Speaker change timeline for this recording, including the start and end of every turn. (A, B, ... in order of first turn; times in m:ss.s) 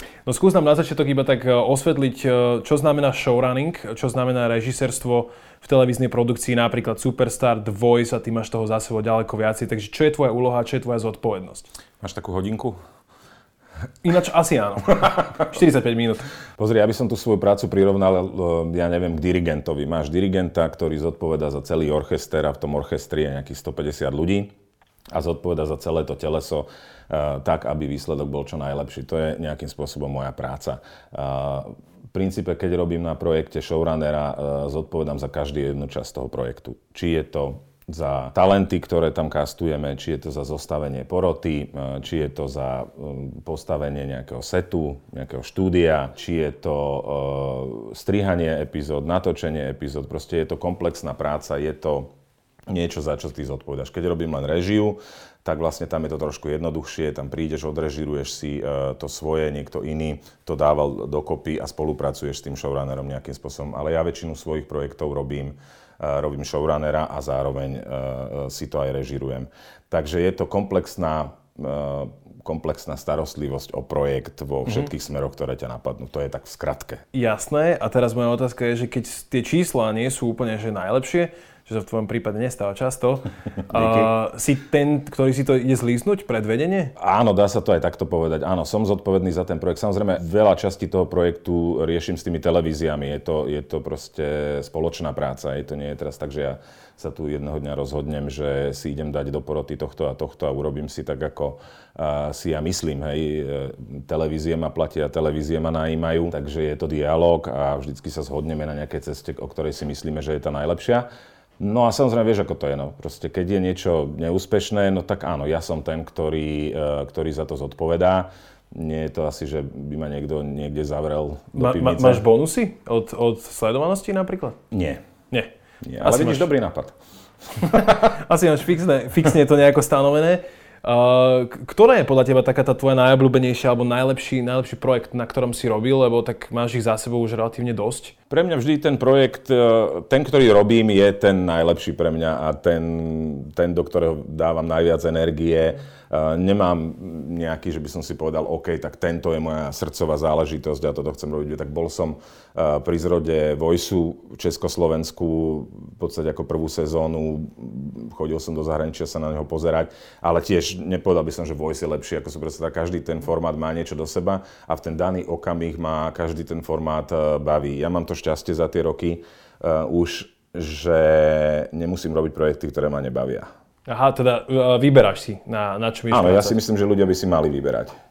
0:00.2-0:11.7 A
0:12.0-0:12.8 B
0:14.0-0:16.3 A
0:16.6-0:24.5 B
0:25.1-0:52.1 B
0:52.7-1:17.0 B
1:17.1-1:26.9 A
1:23.7-1:24.1 B
1:27.0-1:51.1 B
1:51.6-2:02.2 B
2:01.6-2:04.6 A
2:04.7-2:05.0 B
2:05.8-2:07.0 B
2:06.0-2:06.5 A
2:07.6-2:08.2 B
2:07.9-2:18.2 A
2:18.3-2:53.5 B
2:53.9-2:56.6 A
2:56.1-2:58.0 B